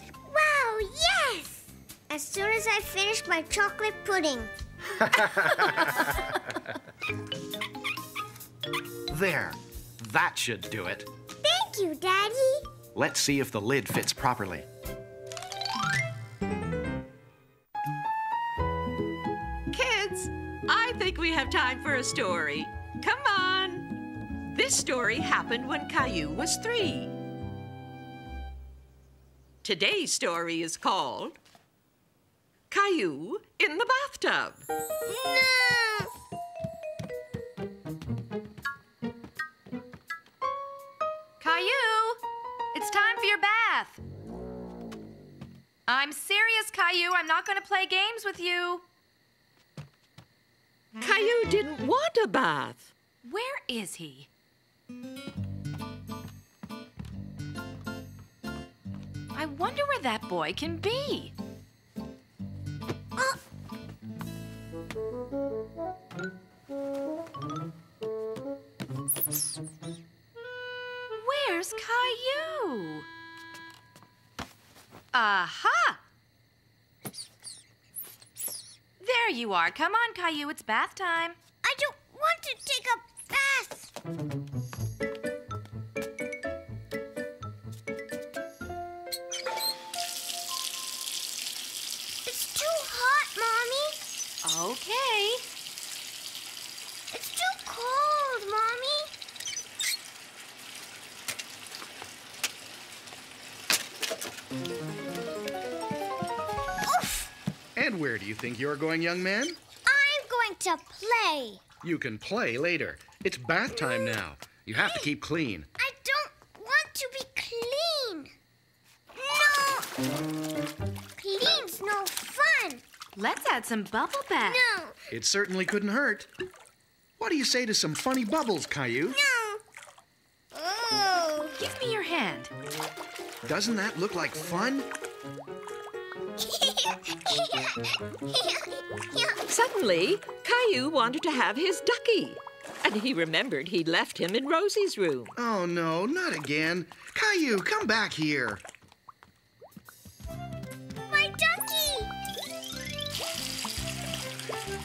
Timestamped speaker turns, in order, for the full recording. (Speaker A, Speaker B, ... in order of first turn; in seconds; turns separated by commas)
Speaker A: 0.3-4.5, Speaker B: 5.0-6.1, Speaker B: 9.1-11.1, Speaker A: 11.4-12.7, Speaker B: 12.9-14.7, Speaker C: 19.7-23.9, Speaker C: 24.4-27.1, Speaker C: 29.6-31.4, Speaker C: 32.7-34.7, Speaker A: 35.1-36.1, Speaker D: 41.4-42.2, Speaker D: 42.7-44.0, Speaker D: 45.9-48.8, Speaker C: 51.0-52.9, Speaker D: 53.2-54.3, Speaker D: 59.3-61.3, Speaker D: 71.2-73.1, Speaker D: 75.1-76.0, Speaker D: 79.0-81.4, Speaker A: 81.6-83.9, Speaker A: 92.3-94.0, Speaker D: 94.4-95.5, Speaker A: 97.1-99.1, Speaker A: 106.8-107.3, Speaker B: 107.8-109.6, Speaker A: 109.9-111.6, Speaker B: 111.8-115.7, Speaker A: 114.8-115.1, Speaker A: 115.8-118.3, Speaker A: 119.2-119.9, Speaker A: 121.2-122.8, Speaker D: 123.2-124.6, Speaker A: 124.5-125.0, Speaker B: 125.1-126.3, Speaker B: 127.2-129.2, Speaker A: 129.1-129.6, Speaker A: 130.5-131.6, Speaker D: 131.6-132.5, Speaker B: 133.4-134.9, Speaker A: 136.4-139.4, Speaker C: 139.5-145.3, Speaker B: 145.4-148.6, Speaker A: 151.1-152.1